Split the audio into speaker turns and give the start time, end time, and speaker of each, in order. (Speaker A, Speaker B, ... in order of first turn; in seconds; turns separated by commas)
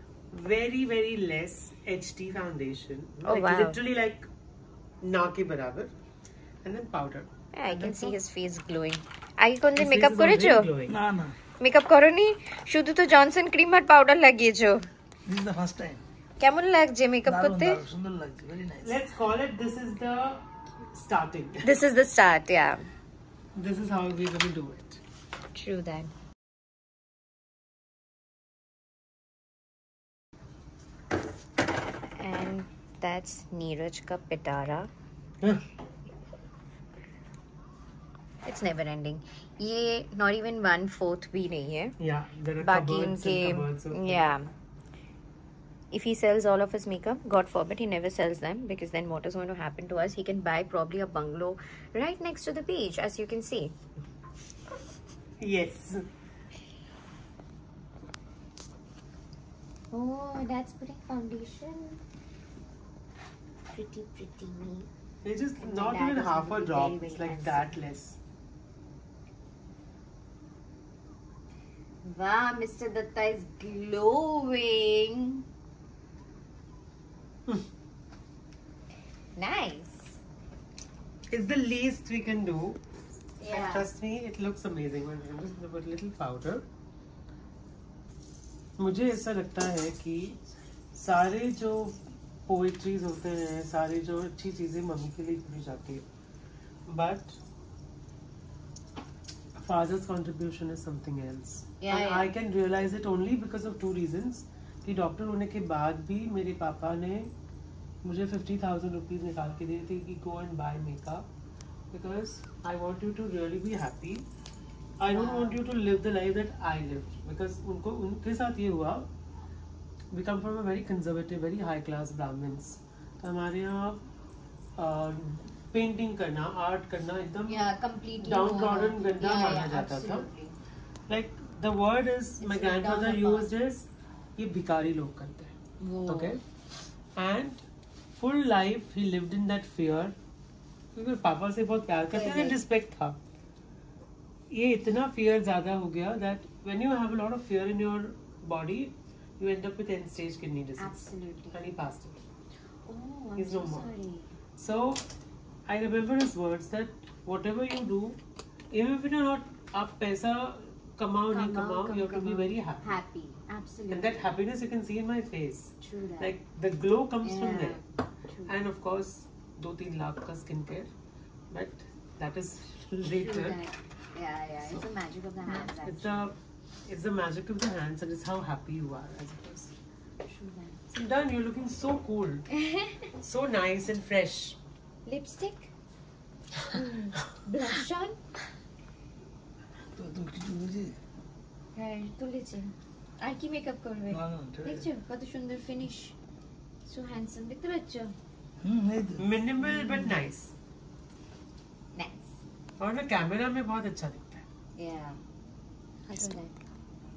Speaker A: 0.3-4.3, Speaker B: 3.2-3.8, Speaker A: 5.0-5.9, Speaker A: 6.6-8.2, Speaker B: 7.5-10.7, Speaker A: 9.8-10.9, Speaker C: 10.9-11.3, Speaker B: 11.6-14.9, Speaker C: 15.2-16.0, Speaker B: 16.4-17.8, Speaker C: 17.2-19.0, Speaker A: 18.8-21.7, Speaker B: 21.6-22.9, Speaker A: 23.5-25.0, Speaker B: 25.5-26.1, Speaker B: 32.2-34.9, Speaker B: 38.4-42.0, Speaker A: 42.0-44.3, Speaker B: 42.6-44.5, Speaker B: 45.9-53.7, Speaker A: 55.4-56.0, Speaker B: 59.9-62.0, Speaker B: 63.7-64.9, Speaker A: 65.2-68.2, Speaker B: 65.6-67.8, Speaker B: 72.0-75.4, Speaker B: 79.3-80.2, Speaker A: 81.3-82.8, Speaker B: 83.4-83.9, Speaker A: 83.5-86.6, Speaker A: 88.8-90.4, Speaker A: 90.9-96.0, Speaker A: 96.9-97.4, Speaker A: 99.6-107.3, Speaker B: 101.8-102.3, Speaker A: 108.0-111.3, Speaker A: 111.9-114.2, Speaker A: 115.0-119.1, Speaker B: 115.1-115.6, Speaker A: 120.1-124.0, Speaker A: 124.8-130.3, Speaker B: 127.4-130.6, Speaker A: 131.1-135.5, Speaker B: 132.4-133.5, Speaker B: 135.8-136.4, Speaker A: 136.1-136.4, Speaker A: 137.2-137.6, Speaker A: 138.2-140.1, Speaker A: 140.9-143.2, Speaker B: 142.1-142.6, Speaker A: 144.5-152.2, Speaker B: 150.8-151.6, Speaker B: 152.9-154.3, Speaker A: 153.4-153.9, Speaker A: 154.6-155.0, Speaker A: 155.7-158.2, Speaker A: 158.7-163.0, Speaker B: 161.3-164.3, Speaker A: 163.9-167.8, Speaker B: 165.8-166.3, Speaker B: 167.2-168.6, Speaker A: 168.5-170.9, Speaker A: 171.5-173.6, Speaker B: 173.1-176.2, Speaker A: 175.4-179.7, Speaker B: 180.3-180.8, Speaker A: 180.9-182.5, Speaker B: 182.6-183.0, Speaker A: 183.2-184.6, Speaker B: 185.0-185.7, Speaker B: 186.7-188.2, Speaker C: 189.9-191.0, Speaker B: 191.7-196.2, Speaker C: 194.1-194.9, Speaker B: 196.8-198.1, Speaker C: 198.6-199.2, Speaker A: 199.2-200.5, Speaker B: 199.6-200.2, Speaker B: 201.9-202.4, Speaker A: 202.8-204.4, Speaker B: 204.8-205.2, Speaker B: 206.1-206.5